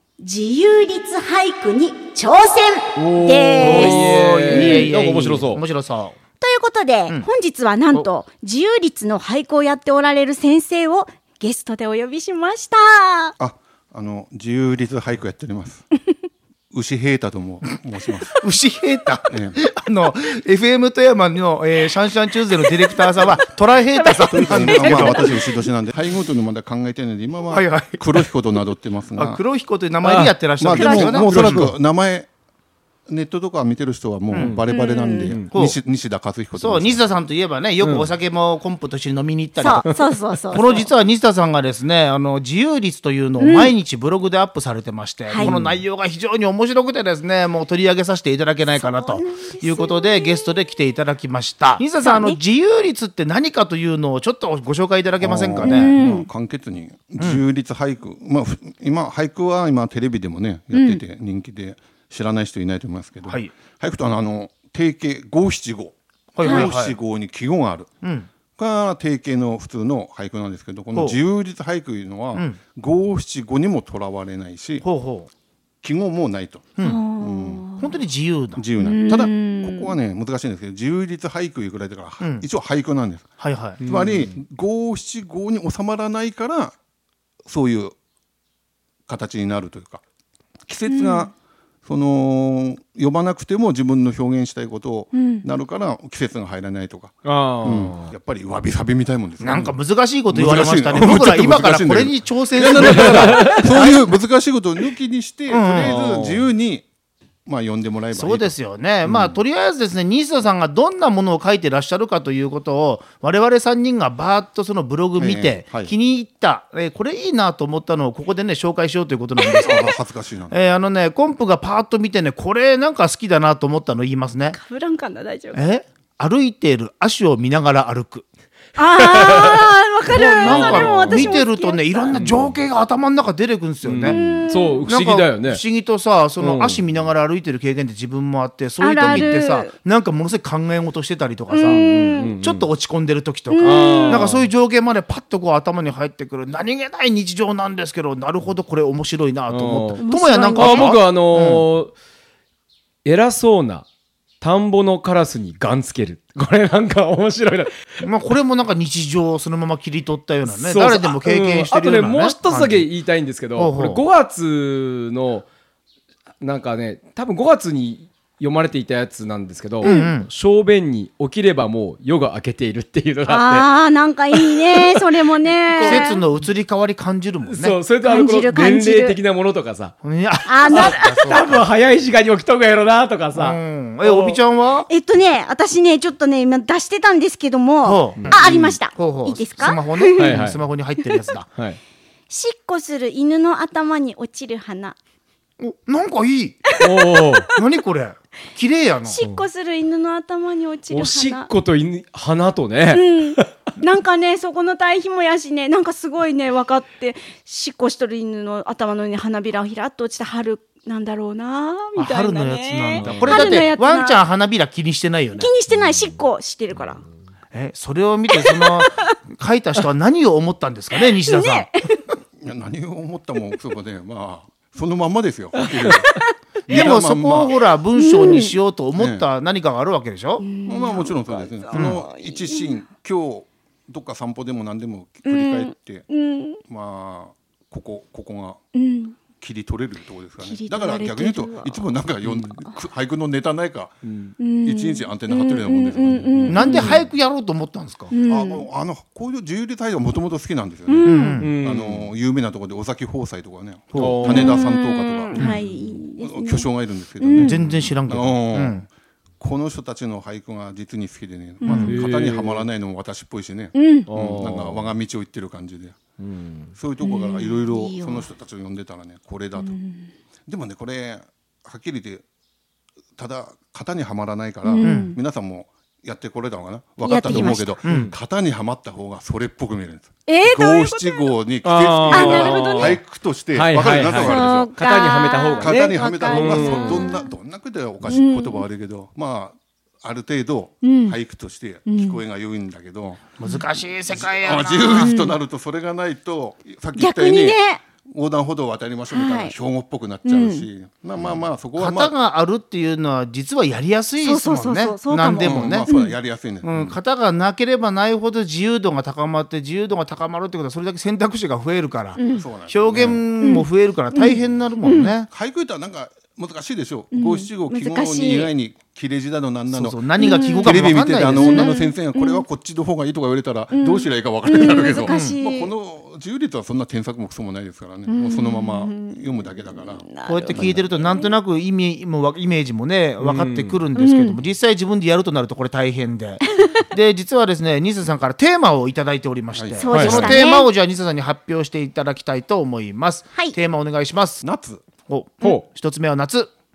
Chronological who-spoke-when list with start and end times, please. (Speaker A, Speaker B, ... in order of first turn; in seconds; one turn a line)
Speaker A: 0.2-4.9
Speaker B: 3.0-5.6
Speaker C: 3.6-6.2
Speaker A: 6.4-13.3
Speaker D: 13.4-15.8
Speaker D: 16.7-18.4
Speaker C: 18.4-25.4
Speaker D: 19.3-19.6
Speaker A: 23.9-25.5
Speaker D: 24.3-29.4
Speaker C: 27.5-28.3
Speaker C: 29.2-31.7
Speaker B: 30.0-30.4
Speaker D: 30.6-32.3
Speaker A: 30.7-31.3
Speaker B: 31.2-31.7
Speaker D: 33.1-37.1
Speaker C: 34.3-34.6
Speaker B: 34.4-34.6
Speaker A: 34.7-35.3
Speaker C: 35.5-35.8
Speaker C: 36.6-56.0
Speaker B: 37.8-38.1
Speaker A: 39.6-40.9
Speaker A: 43.4-43.7
Speaker B: 45.4-45.8
Speaker A: 48.8-50.5
Speaker A: 52.0-52.4
Speaker D: 55.2-67.9
Speaker A: 55.6-56.3
Speaker A: 60.7-61.0
Speaker C: 63.3-63.5
Speaker C: 66.4-67.0
Speaker A: 66.4-66.7
Speaker C: 68.0-68.3
Speaker D: 68.5-74.8
Speaker C: 70.9-71.2
Speaker C: 72.3-72.6
Speaker C: 74.8-75.3
Speaker D: 75.8-77.6
Speaker A: 76.8-77.9
Speaker C: 77.8-78.6
Speaker D: 78.6-83.3
Speaker A: 78.8-80.0
Speaker C: 82.2-82.5
Speaker C: 83.4-83.8
Speaker B: 83.8-84.4
Speaker D: 83.8-86.8
Speaker D: 87.5-87.9
Speaker D: 89.1-90.0
Speaker D: 90.7-91.3
Speaker A: 90.9-91.3
Speaker D: 91.8-99.8
Speaker A: 95.1-95.5
Speaker B: 97.2-98.1
Speaker C: 99.4-104.1
Speaker D: 100.3-106.9
Speaker B: 102.8-103.7
Speaker C: 105.5-106.0
Speaker B: 105.8-106.5
Speaker D: 107.5-108.5
Speaker C: 108.1-119.9
Speaker D: 109.0-109.4
Speaker D: 115.2-115.9
Speaker D: 119.6-120.6
Speaker C: 120.5-124.6
Speaker A: 124.5-125.6
Speaker C: 125.5-128.2
Speaker A: 128.8-132.2
Speaker B: 129.0-129.7
Speaker C: 130.1-141.9
Speaker B: 130.4-131.3
Speaker B: 132.1-132.6
Speaker B: 133.8-135.6
Speaker A: 134.1-134.9
Speaker B: 136.4-136.8
Speaker A: 138.8-139.7
Speaker A: 141.5-142.3
Speaker B: 141.7-142.7
Speaker C: 142.4-151.7
Speaker A: 143.5-144.3
Speaker B: 143.6-144.5
Speaker B: 149.5-150.0
Speaker A: 150.0-151.0
Speaker B: 150.6-151.9
Speaker B: 153.1-153.9
Speaker B: 154.4-157.8
Speaker C: 158.0-162.9
Speaker B: 160.5-165.5
Speaker C: 163.6-164.0
Speaker B: 166.4-173.7
Speaker A: 169.8-170.1
Speaker C: 169.8-170.3
Speaker A: 173.3-176.2
Speaker B: 174.3-175.1
Speaker B: 175.7-176.2
Speaker C: 175.8-177.8
Speaker B: 177.4-179.9
Speaker A: 178.0-179.2
Speaker C: 180.0-181.7
Speaker A: 180.5-181.4
Speaker B: 180.7-184.4
Speaker C: 183.3-184.9
Speaker A: 184.9-190.4
Speaker C: 187.8-191.5
Speaker B: 188.2-188.8
Speaker B: 190.2-190.6
Speaker A: 192.3-195.0
Speaker C: 195.6-196.6
Speaker A: 196.7-197.4
Speaker B: 196.8-197.5
Speaker C: 197.6-199.2
Speaker A: 199.1-201.5
Speaker B: 199.2-199.4
Speaker B: 200.9-203.5
Speaker A: 202.9-214.2
Speaker C: 212.0-215.5
Speaker B: 213.0-213.4
Speaker A: 215.4-217.0
Speaker C: 217.5-221.7
Speaker A: 218.3-219.0
Speaker A: 221.1-222.1
Speaker D: 222.4-227.6
Speaker C: 226.7-230.5
Speaker A: 228.0-228.5
Speaker D: 229.0-229.3
Speaker A: 230.4-232.8
Speaker D: 230.7-236.1
Speaker C: 231.7-232.0
Speaker A: 235.3-236.6
Speaker D: 236.7-238.6
Speaker A: 238.8-239.2
Speaker D: 239.3-244.0
Speaker A: 240.4-241.9
Speaker B: 242.2-242.5
Speaker B: 244.0-244.3
Speaker A: 244.4-247.0
Speaker D: 244.6-246.9
Speaker C: 246.5-248.1
Speaker A: 248.1-248.7
Speaker D: 248.3-258.9
Speaker A: 250.9-251.4
Speaker C: 251.1-251.5
Speaker B: 251.4-252.1
Speaker C: 253.9-254.2
Speaker B: 254.0-254.6
Speaker A: 254.2-256.7
Speaker C: 255.4-255.6
Speaker A: 257.2-257.6
Speaker C: 257.4-258.9
Speaker D: 259.4-266.0
Speaker A: 261.6-261.9
Speaker C: 261.6-261.9
Speaker B: 261.9-262.7
Speaker A: 263.8-264.1
Speaker B: 264.1-264.9
Speaker B: 266.2-266.7
Speaker D: 266.8-269.8
Speaker A: 267.0-268.3
Speaker A: 269.6-270.1
Speaker D: 270.5-272.2
Speaker D: 273.2-284.7
Speaker A: 274.6-275.2
Speaker C: 274.8-275.1
Speaker A: 277.0-277.8
Speaker C: 277.8-278.1
Speaker B: 277.9-278.1
Speaker A: 280.3-281.4
Speaker B: 281.6-283.0
Speaker A: 282.1-283.0
Speaker B: 283.5-287.1
Speaker A: 284.0-287.3
Speaker D: 285.6-293.2
Speaker A: 288.0-288.6
Speaker A: 290.8-291.2
Speaker A: 291.9-292.2
Speaker C: 293.4-295.1
Speaker D: 294.1-302.1
Speaker A: 294.9-295.4
Speaker A: 297.0-297.8
Speaker A: 299.1-299.6
Speaker A: 300.2-300.7
Speaker C: 301.8-305.9
Speaker A: 304.2-306.2
Speaker D: 305.4-307.0
Speaker C: 306.6-315.3
Speaker A: 312.2-312.5
Speaker D: 312.3-313.2
Speaker A: 313.4-315.1
Speaker D: 315.3-331.1
Speaker A: 317.1-318.5
Speaker C: 319.7-321.8
Speaker A: 320.2-320.8
Speaker A: 321.3-322.4
Speaker A: 323.7-325.7
Speaker C: 325.1-325.4
Speaker A: 328.1-329.2
Speaker A: 329.8-331.1
Speaker C: 330.2-344.4
Speaker B: 333.2-333.8
Speaker A: 334.0-334.4
Speaker A: 336.6-336.9
Speaker D: 339.6-340.3
Speaker A: 339.8-340.7
Speaker B: 339.9-340.4
Speaker D: 344.4-344.9
Speaker C: 345.1-346.5